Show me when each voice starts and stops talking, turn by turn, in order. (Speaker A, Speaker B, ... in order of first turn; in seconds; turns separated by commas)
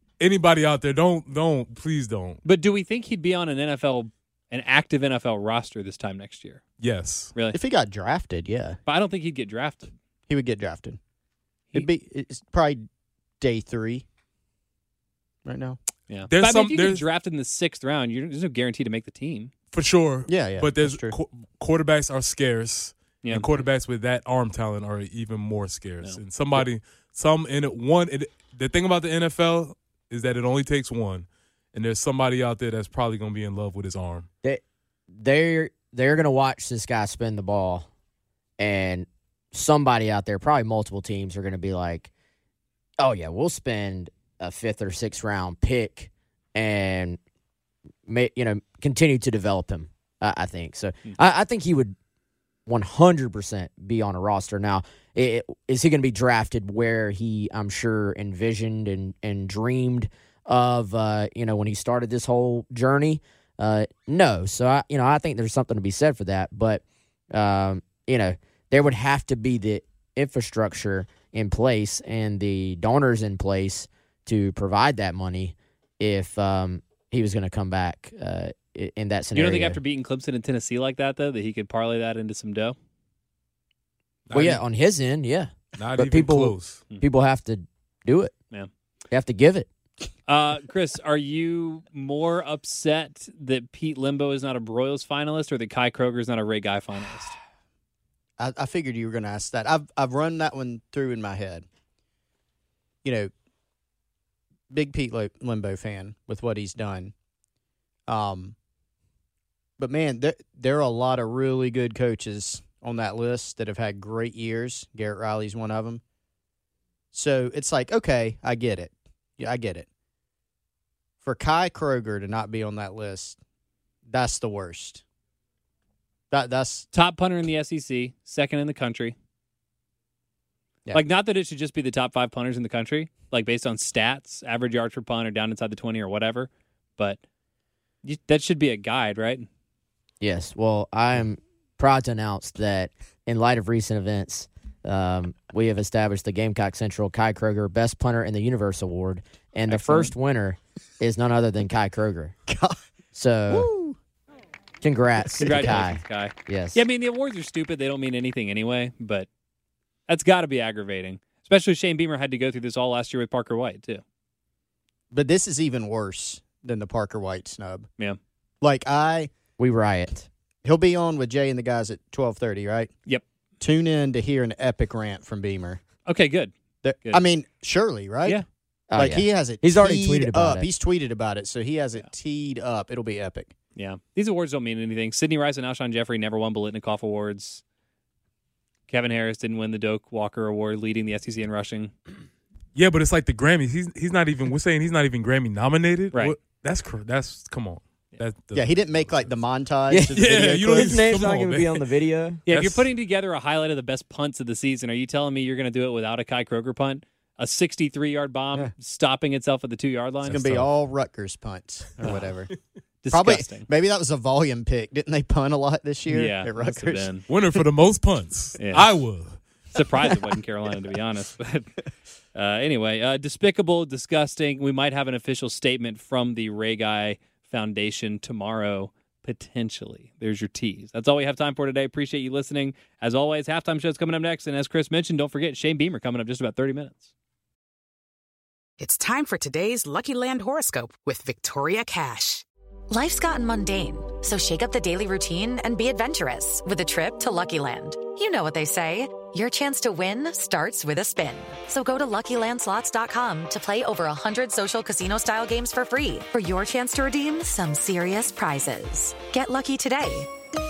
Speaker A: 0.2-2.4, Speaker B: 2.4-6.6, Speaker A: 6.8-7.3, Speaker C: 7.5-8.8, Speaker B: 8.8-9.9, Speaker C: 10.3-11.0, Speaker C: 11.7-12.8, Speaker C: 13.4-14.1, Speaker C: 15.4-15.8, Speaker B: 16.1-19.5, Speaker A: 16.3-17.0, Speaker A: 19.7-34.3, Speaker C: 20.3-21.1, Speaker B: 23.2-23.5, Speaker D: 34.4-37.9, Speaker D: 38.6-42.1, Speaker D: 43.0-47.2, Speaker D: 48.0-51.9, Speaker D: 52.6-79.8, Speaker B: 79.3-82.8, Speaker A: 84.3-84.6, Speaker D: 84.3-88.3, Speaker A: 85.8-86.8, Speaker D: 89.1-89.7, Speaker B: 90.3-97.3, Speaker C: 98.4-101.7, Speaker C: 103.0-103.3, Speaker C: 104.7-107.1, Speaker C: 108.1-108.5, Speaker C: 109.8-116.0, Speaker C: 117.1-119.9, Speaker C: 121.2-123.4, Speaker C: 124.1-125.0, Speaker C: 126.3-126.9, Speaker B: 126.9-129.1, Speaker B: 130.9-137.2, Speaker B: 138.0-139.5, Speaker D: 140.2-152.3, Speaker B: 149.7-150.1, Speaker C: 152.5-152.8, Speaker D: 153.1-153.7, Speaker C: 153.5-154.0, Speaker D: 154.8-156.8, Speaker C: 155.4-155.8, Speaker B: 155.4-159.3, Speaker B: 160.1-164.0, Speaker C: 165.1-167.9, Speaker C: 168.6-169.3, Speaker D: 169.6-170.3, Speaker C: 170.6-172.9, Speaker C: 173.6-175.8, Speaker B: 176.1-177.2, Speaker C: 176.8-178.4, Speaker D: 178.9-180.7, Speaker C: 178.9-183.5, Speaker B: 183.8-187.6, Speaker B: 188.9-191.9, Speaker A: 192.7-199.4, Speaker C: 198.5-201.1, Speaker D: 199.9-202.4, Speaker A: 200.1-201.8, Speaker B: 202.5-210.7, Speaker A: 202.5-202.9, Speaker C: 210.2-212.5, Speaker B: 212.0-212.3, Speaker B: 213.0-213.7, Speaker C: 213.1-217.1, Speaker B: 216.1-217.3, Speaker A: 217.3-219.4, Speaker B: 218.6-218.9, Speaker B: 219.7-221.7, Speaker B: 222.3-237.1, Speaker E: 238.8-242.4, Speaker F: 242.9-260.3